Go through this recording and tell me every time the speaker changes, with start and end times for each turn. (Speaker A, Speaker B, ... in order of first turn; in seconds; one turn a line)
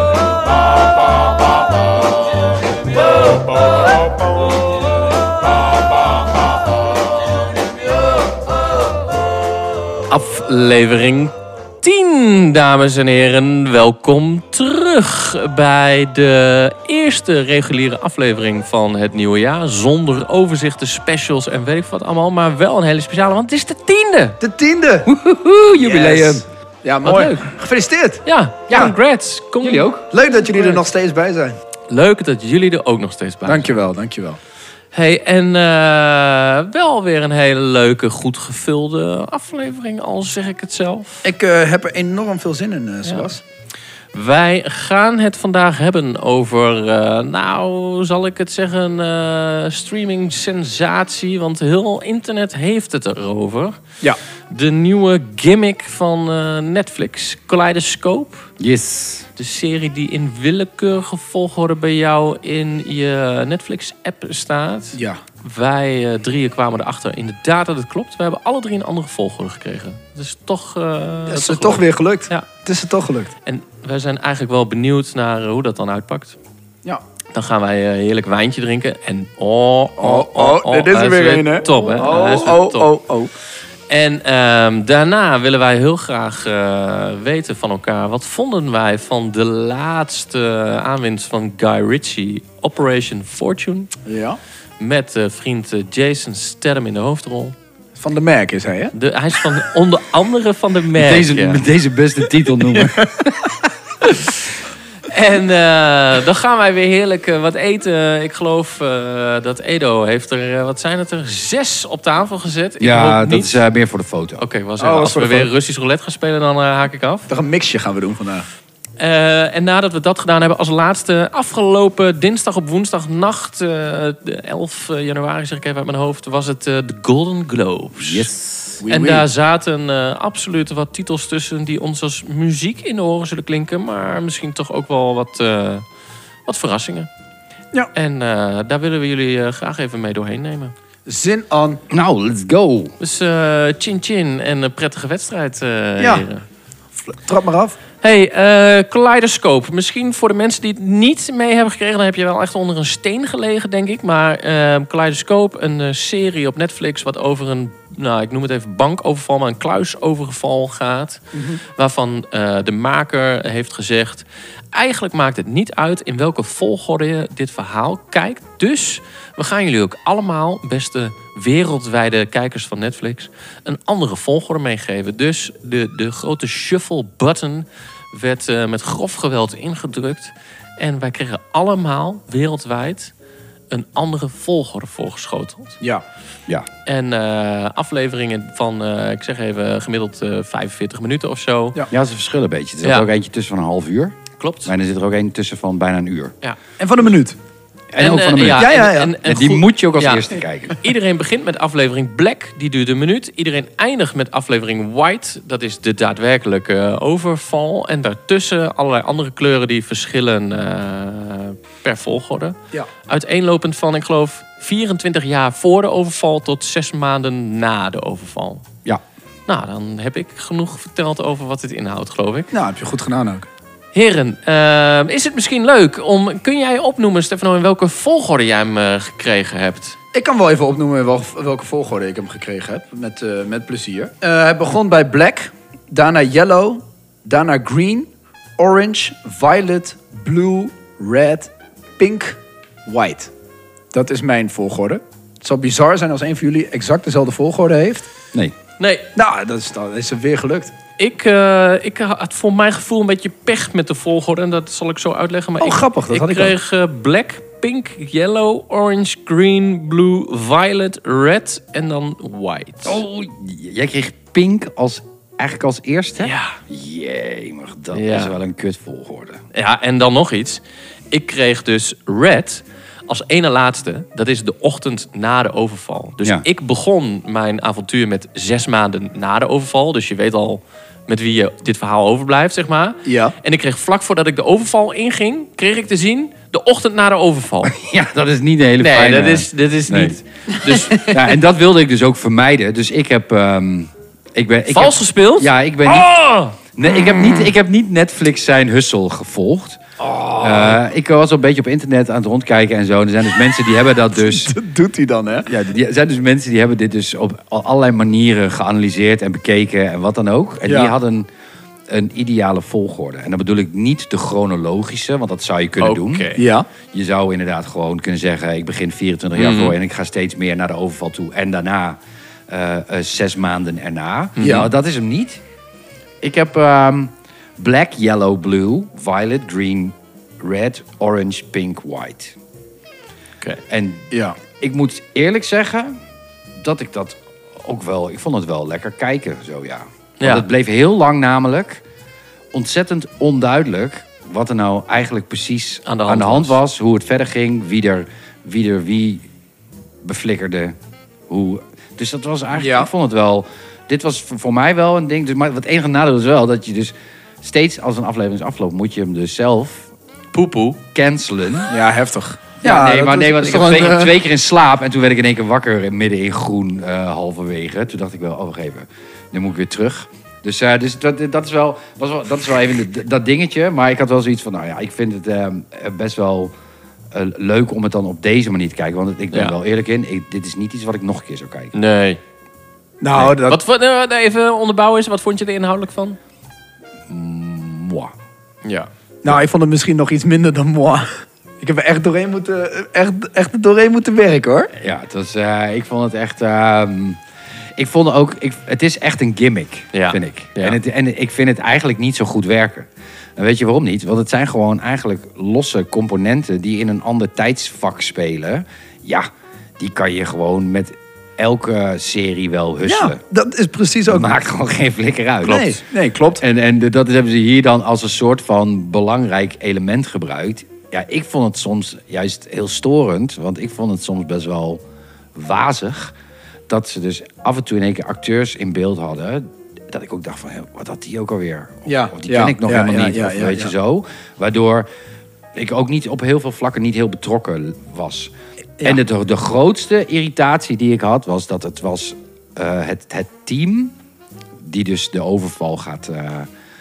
Speaker A: 10.1-24.4
Speaker B: 24.4-25.1
Speaker C: 25.1-26.4
Speaker B: 25.8-28.2
Speaker A: 27.1-27.4
Speaker A: 28.3-29.9
Speaker C: 28.7-28.9
Speaker C: 29.6-30.0
Speaker B: 30.1-31.6
Speaker A: 30.5-30.8
Speaker A: 31.9-33.7
Speaker B: 33.5-34.4
Speaker A: 34.9-41.2
Speaker B: 41.2-43.4
Speaker A: 44.1-53.8
Speaker A: 54.5-58.5
Speaker C: 58.6-59.3
Speaker A: 59.4-72.5
Speaker B: 64.9-65.2
Speaker B: 71.3-73.3
Speaker A: 73.5-76.4
Speaker A: 77.3-82.9
Speaker B: 80.0-83.3
Speaker A: 83.9-93.9
Speaker B: 94.1-94.4
Speaker A: 94.8-97.5
Speaker B: 98.0-98.9
Speaker A: 98.9-101.6
Speaker C: 101.0-103.7
Speaker A: 104.0-104.5
Speaker A: 105.1-113.6
Speaker C: 112.8-114.4
Speaker A: 114.4-117.3
Speaker B: 114.8-115.5
Speaker B: 117.3-118.5
Speaker A: 119.0-128.3
Speaker C: 128.0-128.7
Speaker B: 128.8-129.2
Speaker A: 128.9-135.8
Speaker A: 136.5-137.1
Speaker A: 137.9-140.7
Speaker B: 141.1-141.8
Speaker C: 141.9-142.9
Speaker A: 143.0-146.4
Speaker B: 146.0-146.2
Speaker B: 147.2-147.8
Speaker A: 148.0-183.1
Speaker B: 161.3-161.6
Speaker A: 183.7-185.8
Speaker A: 186.9-191.8
Speaker C: 191.9-196.3
Speaker A: 194.4-194.7
Speaker B: 196.8-197.4
Speaker C: 197.9-200.8
Speaker A: 198.0-212.6
Speaker B: 198.5-199.2
Speaker A: 213.1-218.7
Speaker A: 219.5-222.5
Speaker B: 222.5-223.5
Speaker A: 223.9-230.0
Speaker B: 230.1-243.3
Speaker B: 243.9-248.1
Speaker A: 248.8-249.1
Speaker B: 249.2-250.7
Speaker A: 251.0-263.0
Speaker B: 255.6-256.6
Speaker C: 262.9-269.4
Speaker A: 266.2-266.6
Speaker A: 267.9-268.4
Speaker A: 269.5-287.7
Speaker B: 283.1-283.4
Speaker C: 287.6-290.2
Speaker A: 288.8-291.4
Speaker C: 290.9-299.8
Speaker A: 294.7-296.2
Speaker B: 300.0-300.4
Speaker C: 300.4-304.6
Speaker B: 304.2-305.5
Speaker C: 305.5-311.3
Speaker B: 310.6-310.9
Speaker C: 311.9-316.3
Speaker A: 315.8-316.4
Speaker B: 316.4-316.7
Speaker C: 316.9-325.4
Speaker A: 319.4-319.8
Speaker A: 324.4-324.7
Speaker B: 324.4-324.7
Speaker C: 326.2-332.4
Speaker C: 333.7-335.9
Speaker B: 334.1-334.4
Speaker C: 336.6-341.8
Speaker A: 340.2-340.5
Speaker C: 342.5-349.3
Speaker A: 345.9-346.6
Speaker C: 350.0-350.8
Speaker C: 351.3-359.9
Speaker B: 352.6-352.9
Speaker A: 360.3-360.8
Speaker C: 360.9-361.7
Speaker B: 361.7-364.1
Speaker C: 362.6-376.5
Speaker C: 377.1-381.7
Speaker A: 381.7-382.2
Speaker B: 383.0-383.6
Speaker A: 383.2-386.2
Speaker C: 387.1-388.1
Speaker A: 388.6-388.9
Speaker B: 389.2-391.1
Speaker B: 391.6-394.7
Speaker C: 394.7-397.2
Speaker C: 397.8-409.3
Speaker A: 399.9-400.8
Speaker C: 409.8-413.2
Speaker B: 412.9-414.3
Speaker C: 414.1-415.8
Speaker B: 415.4-416.4
Speaker C: 416.4-424.8
Speaker C: 425.4-426.1
Speaker C: 426.7-434.9
Speaker B: 431.9-433.7
Speaker C: 435.6-438.3
Speaker C: 438.8-443.9
Speaker C: 444.6-446.5